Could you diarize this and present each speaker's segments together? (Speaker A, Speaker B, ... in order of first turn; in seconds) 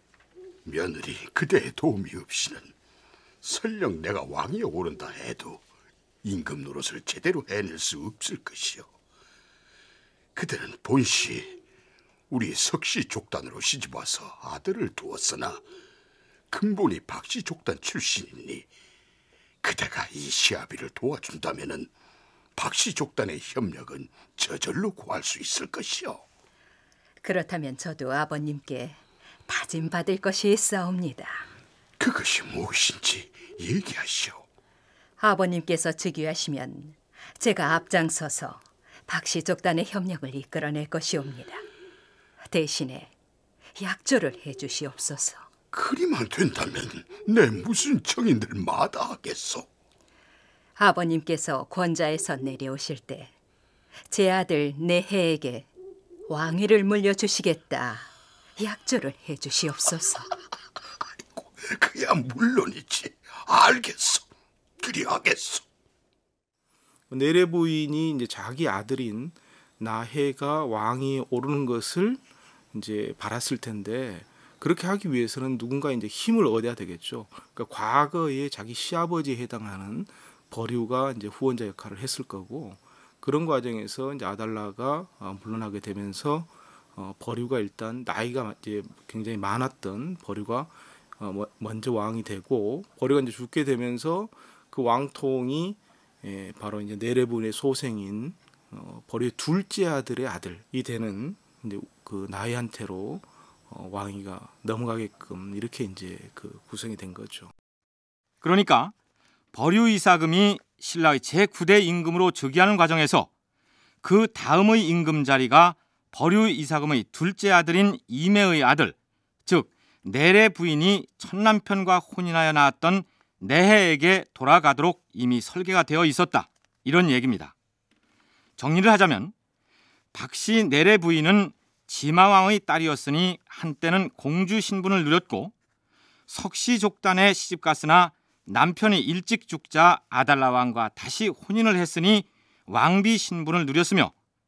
Speaker A: 0.7-2.7, 3.4-5.6, 6.2-8.9, 10.3-11.6, 12.3-15.6, 16.5-18.7, 19.6-21.9, 22.6-26.2, 32.0-34.4, 45.7-49.7, 61.4-64.3, 64.8-65.6
Speaker B: 27.2-31.5, 35.2-41.6, 42.5-43.1, 43.8-45.5, 50.8-53.3, 54.1-55.7, 56.3-60.3
Speaker C: 67.1-107.5
Speaker D: 108.4-108.9, 109.5-113.3, 114.0-119.0, 119.5-127.5, 128.6-129.3, 130.1-135.5, 136.3-144.1